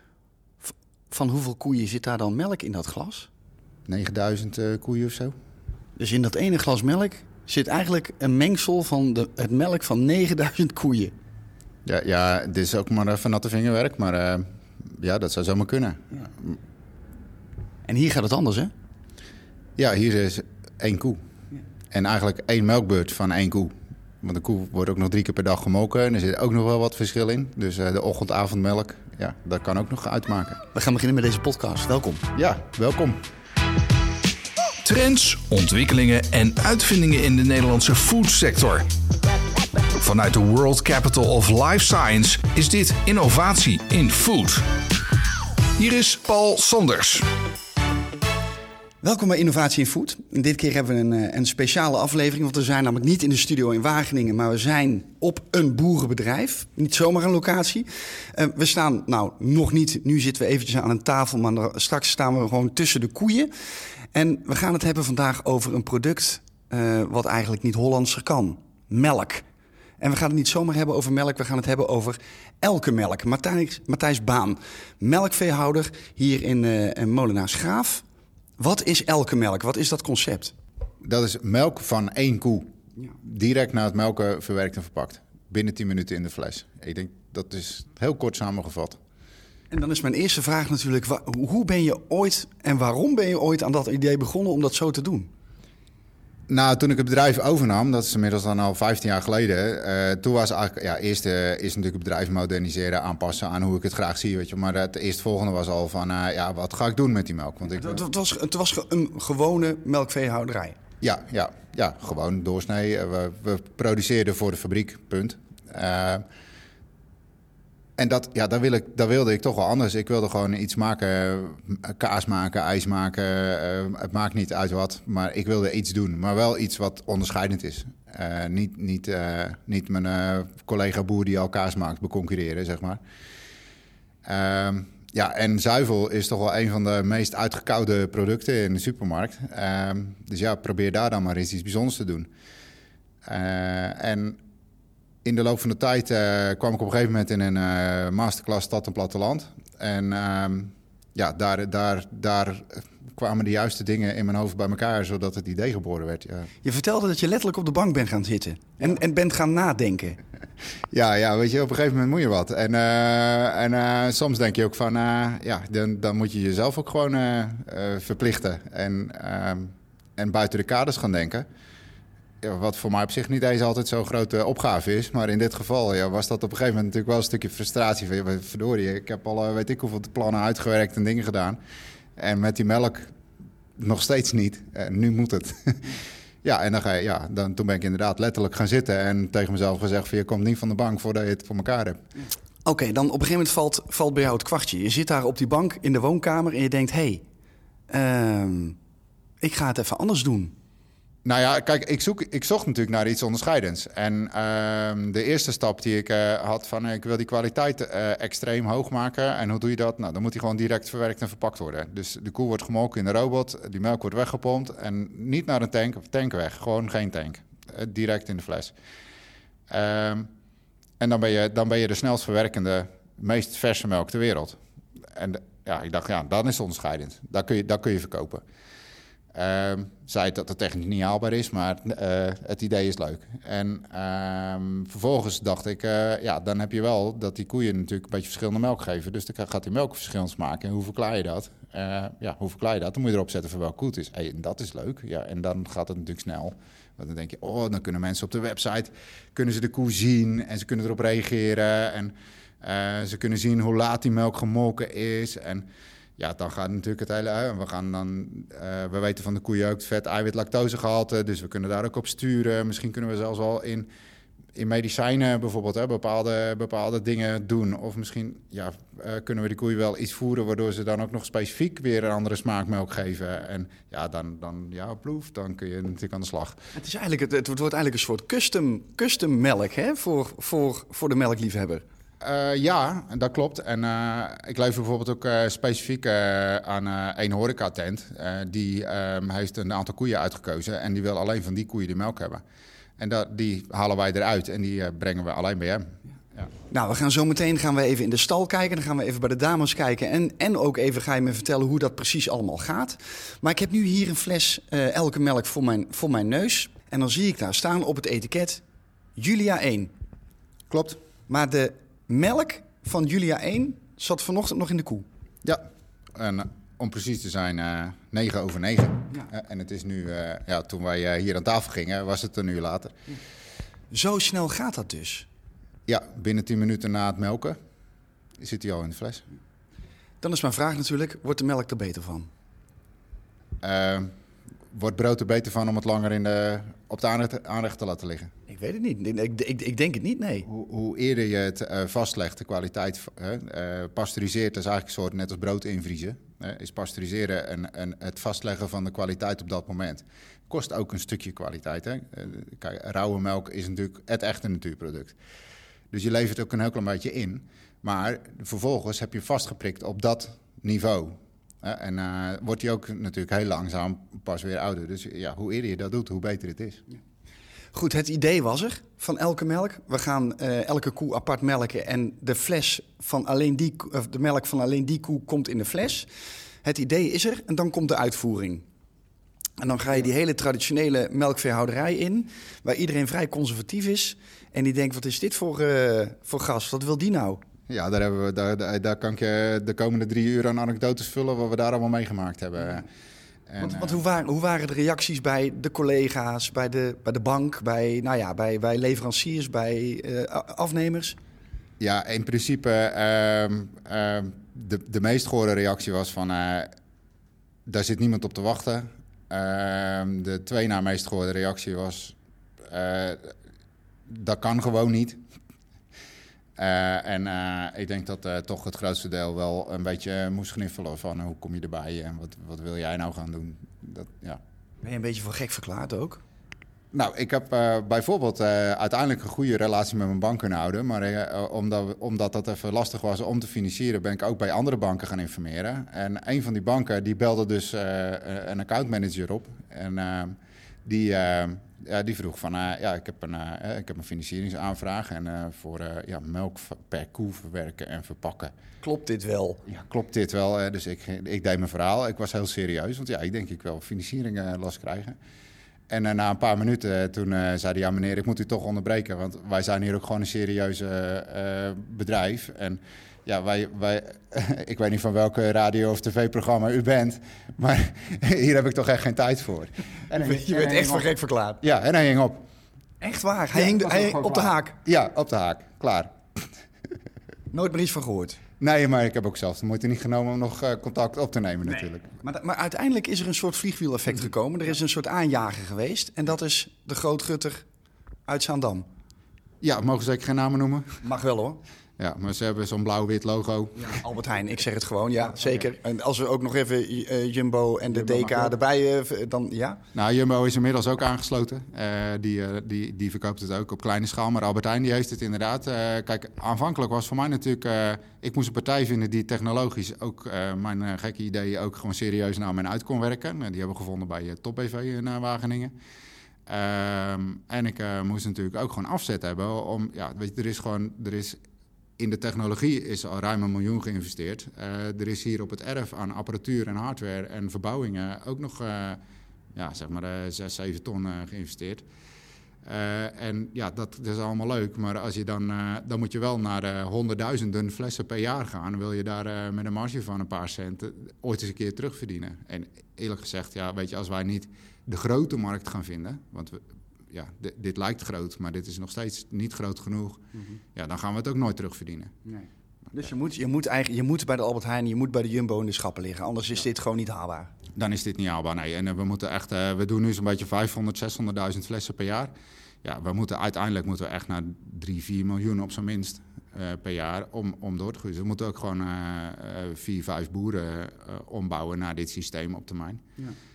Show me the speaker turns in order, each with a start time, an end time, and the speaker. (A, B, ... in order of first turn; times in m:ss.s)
0:00.6-0:03.3 A
0:03.8-0:05.3 B
0:06.0-0:11.1 A
0:11.8-0:16.6 B
0:17.9-0:18.7 A
0:19.8-0:21.2 B
0:21.9-0:30.6 B
0:30.7-0:32.3 A
0:32.3-0:33.2 B
0:34.8-0:38.9 C
0:40.0-0:44.6 C
0:45.8-0:47.3 C
0:49.0-1:03.5 A
1:04.1-1:09.4 A
1:10.0-1:18.0 A
1:18.6-1:20.5 A
1:21.0-1:22.7 B
1:23.2-1:29.0 B
1:29.7-1:35.3 A
1:36.5-1:48.0 B
1:47.7-1:50.8 A
1:51.0-1:56.2 B
1:58.0-2:13.0 B
2:14.2-2:22.3 B
2:23.2-2:24.4 B
2:25.2-2:36.5 B
2:36.6-2:40.2 A
2:40.9-2:51.4 B
2:52.4-3:01.6 B
3:02.2-3:03.1 B
3:03.8-3:12.0 B
3:12.7-3:17.2 A
3:17.9-3:18.8 A
3:19.4-3:20.5 A
3:21.2-3:38.7 B
3:39.7-3:40.3 B
3:41.0-3:44.6 B
3:45.1-3:48.4 B
3:49.3-4:15.7 B
4:16.2-4:23.9 B
4:24.6-4:36.6 B
4:36.8-4:41.8 A
4:42.2-4:52.4 B
4:53.0-4:56.5 B
4:56.7-5:08.6 A
5:09.2-5:09.9 A
5:10.7-5:11.0 B
5:11.3-5:15.1 A
5:16.2-5:22.9 B
5:23.9-5:25.3 A
5:25.9-5:27.6 B
5:28.4-5:29.2 B
5:30.2-5:32.3 A
5:33.6-5:34.1 B
5:34.7-5:38.3 B
5:38.5-5:40.5 A
5:40.5-5:55.2 B
5:55.9-6:06.8 B
6:07.7-6:16.1 A
6:16.6-6:18.6 A
6:19.6-6:27.4 A
6:27.7-6:32.9 B
6:33.5-6:34.0 B
6:33.6-6:41.2 A
6:41.8-6:46.7 B
6:47.7-6:52.2 B
6:52.7-6:53.4 B
6:54.1-6:55.2 B
6:56.6-7:04.4 B
7:04.8-7:06.2 A
7:06.9-7:28.5 B
7:28.8-7:29.6 A
7:29.7-7:35.2 B
7:35.9-7:51.1 B
7:50.2-7:51.6 A
7:51.6-7:52.4 B
7:53.0-7:54.8 A
7:53.5-7:56.1 B
7:57.5-7:58.4 A
7:58.6-8:02.1 B
8:02.1-8:07.6 A
8:08.3-8:08.9 A
8:09.6-8:11.0 B
8:11.0-8:11.6 A
8:12.0-8:14.0 B
8:13.8-8:19.8 A
8:15.4-8:15.7 B
8:17.9-8:18.6 B
8:19.9-8:35.7 B
8:36.5-8:41.4 B
8:42.0-8:49.0 B
8:49.5-8:51.9 B
8:52.6-9:10.2 B
9:10.8-9:12.1 B
9:12.2-9:17.5 A
9:17.8-9:22.3 B
9:22.8-9:33.0 B